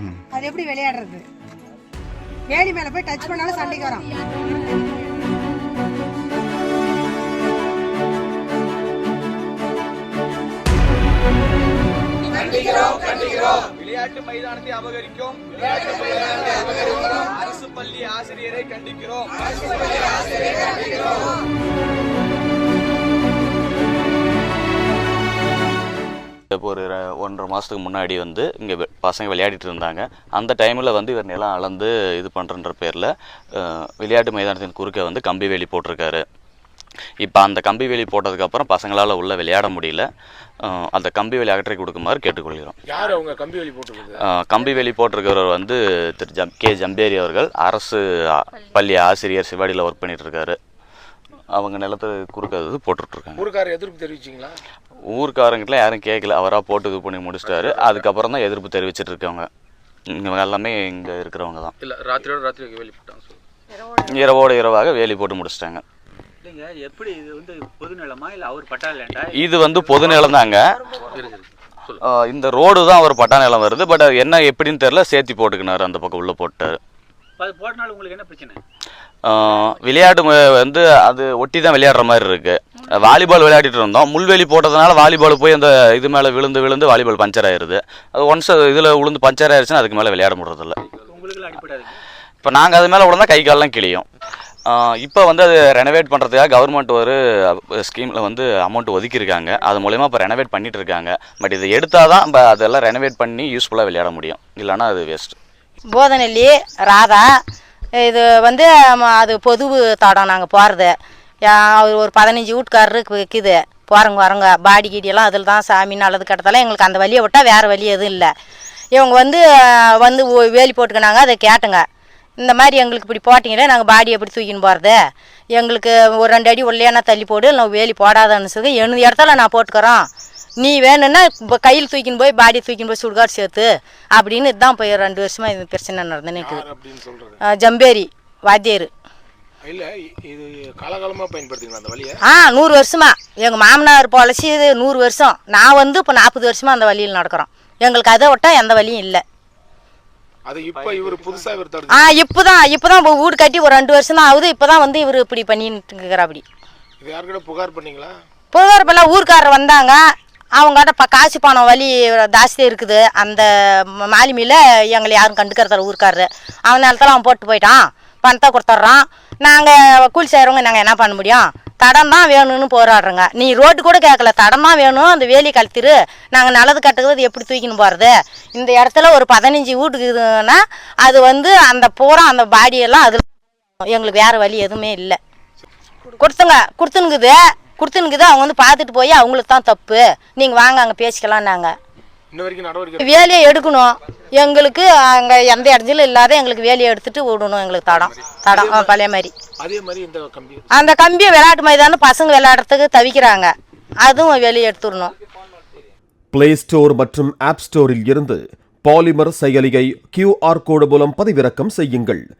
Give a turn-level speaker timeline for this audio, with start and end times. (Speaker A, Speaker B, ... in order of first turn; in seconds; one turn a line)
Speaker A: 0.3-1.2
Speaker A: 2.5-4.1
Speaker B: 14.0-15.4
Speaker B: 17.6-19.2
Speaker C: 26.5-36.2
Speaker C: 37.2-40.1
Speaker C: 40.6-42.8
Speaker D: 42.9-44.2
Speaker C: 44.2-50.6
Speaker C: 51.5-53.4
Speaker D: 53.4-54.6
Speaker C: 55.1-59.5
Speaker D: 57.6-57.9
Speaker C: 60.1-61.7
Speaker E: 62.0-63.1
Speaker C: 63.9-65.8
Speaker E: 66.4-69.5
Speaker C: 69.3-70.6
Speaker C: 72.0-76.8
Speaker E: 77.4-78.6
Speaker C: 79.2-90.8
Speaker E: 91.1-91.9
Speaker C: 92.4-94.0
Speaker C: 94.7-105.4
Speaker F: 105.9-107.3
Speaker F: 108.0-110.9
Speaker F: 111.5-118.3
Speaker F: 118.9-121.8
Speaker F: 122.4-125.0
Speaker F: 125.5-130.1
Speaker F: 130.6-136.6
Speaker D: 136.3-137.4
Speaker F: 137.4-138.9
Speaker D: 139.6-142.2
Speaker F: 142.2-149.2
Speaker D: 150.4-152.1
Speaker F: 151.9-156.4
Speaker D: 157.0-158.2
Speaker F: 158.5-160.0
Speaker F: 160.6-183.3
Speaker F: 183.8-185.2
Speaker F: 186.2-191.7
Speaker D: 192.3-193.1
Speaker F: 193.0-199.3
Speaker D: 197.9-198.9
Speaker D: 199.6-200.7
Speaker F: 200.7-203.5
Speaker F: 204.0-205.1
Speaker G: 206.3-212.2